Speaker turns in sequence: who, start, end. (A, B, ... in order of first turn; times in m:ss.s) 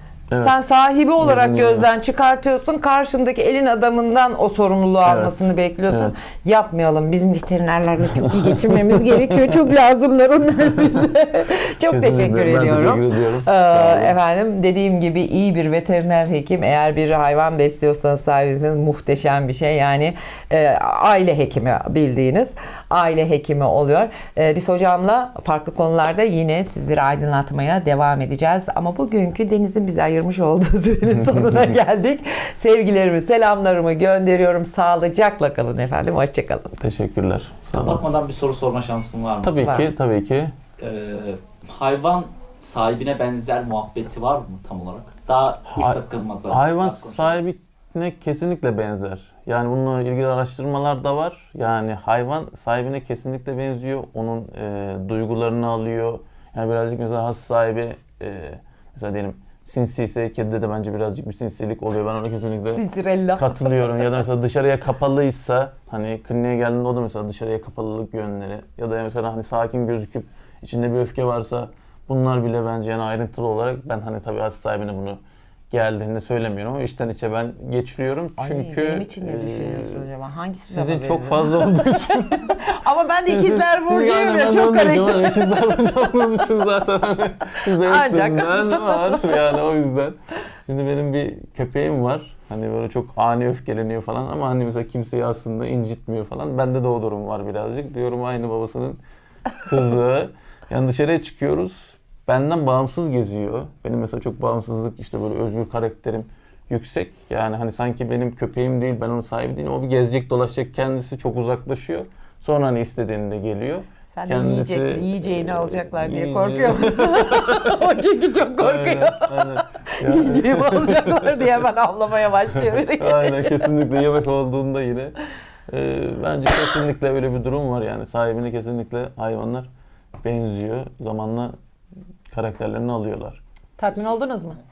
0:00.4-0:36.7 A
0:01.2-0:01.8 B
0:05.0-0:05.3 B
0:05.9-0:06.1 B
0:08.3-0:09.2 B
0:11.9-0:14.2 B
0:36.8-0:38.0 B
0:37.7-0:39.6 C
0:39.4-0:40.5 B
0:40.8-0:47.4 C
0:45.8-1:02.8 B
1:02.7-1:03.9 A
1:03.4-1:15.2 B
1:15.7-1:20.1 B
1:18.4-1:25.8 A
1:20.7-1:22.7 B
1:23.3-1:39.0 B
1:27.6-1:29.5 A
1:39.6-1:57.8 B
1:54.1-2:03.7 A
1:58.6-2:01.5 B
2:02.6-2:05.2 B
2:05.7-2:09.7 B
2:10.2-2:11.5 B
2:12.3-2:13.4 B
2:13.8-2:14.6 A